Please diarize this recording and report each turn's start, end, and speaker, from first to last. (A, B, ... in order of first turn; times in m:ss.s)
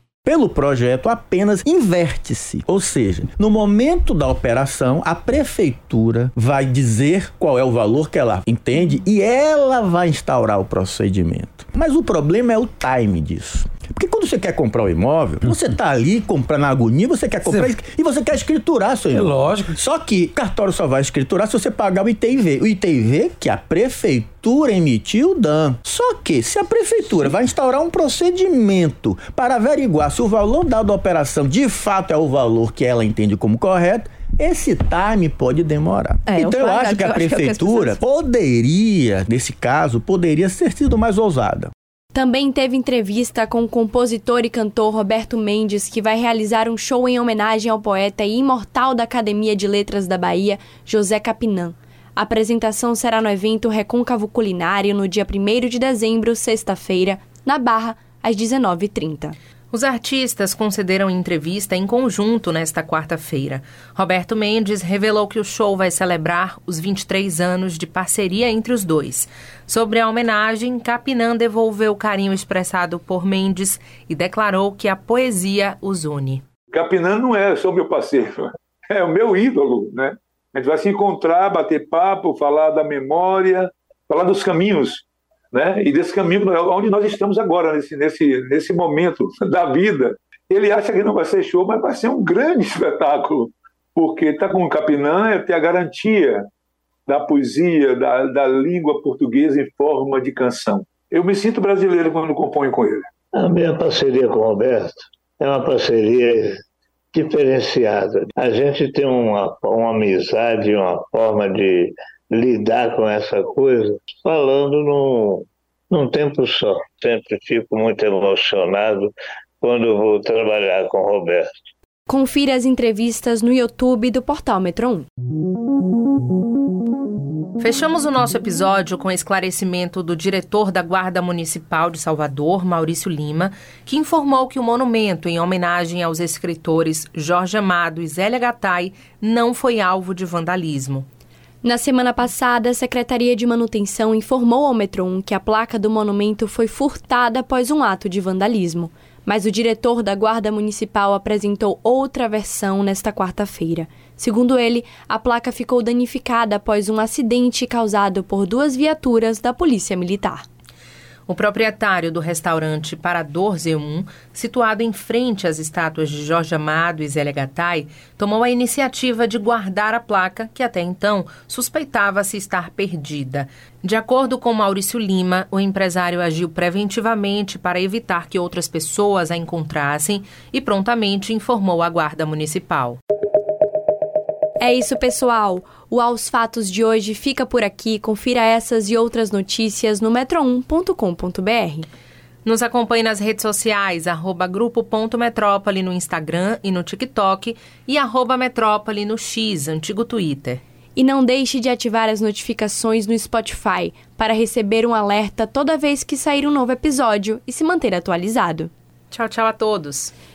0:00.2-0:41.7 A
0:42.1-0:59.4 B
0:59.7-1:16.4 C
1:16.7-1:36.4 D
1:37.1-1:43.0 D
1:43.3-1:46.6 E
1:47.1-2:01.5 E
2:02.1-2:05.0 B
2:07.6-2:21.0 C
2:21.6-2:40.4 B
2:41.3-3:03.0 C
3:04.6-3:11.9 B
3:12.4-3:20.6 C
3:21.0-3:28.7 B
3:29.1-3:30.1 C